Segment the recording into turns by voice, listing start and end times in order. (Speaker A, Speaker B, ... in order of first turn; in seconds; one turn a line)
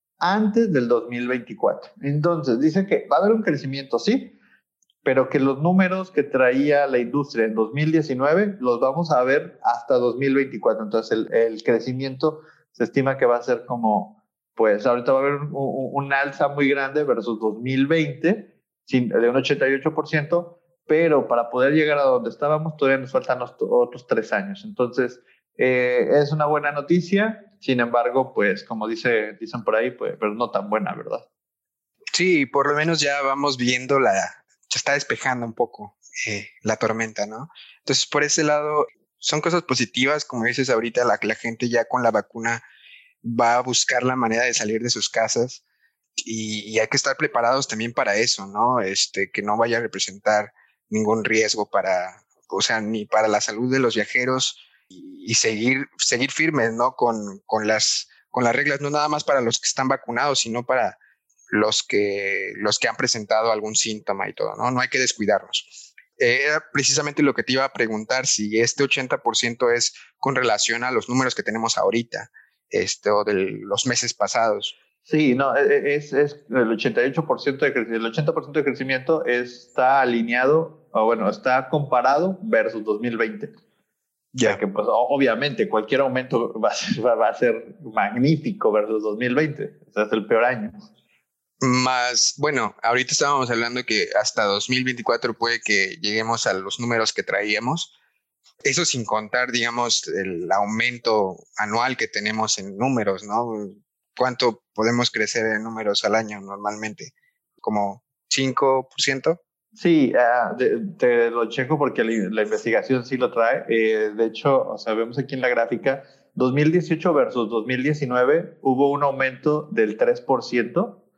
Speaker A: 0.2-4.3
Speaker A: 5.0-31.2
Speaker B: 32.1-42.6
Speaker B: 43.2-45.6
Speaker B: 46.2-61.0
Speaker B: 61.5-74.7
Speaker A: 75.1-83.5
Speaker B: 84.3-84.6
Speaker A: 84.4-90.8
Speaker B: 91.6-97.9
Speaker B: 98.6-109.4
Speaker A: 109.8-121.0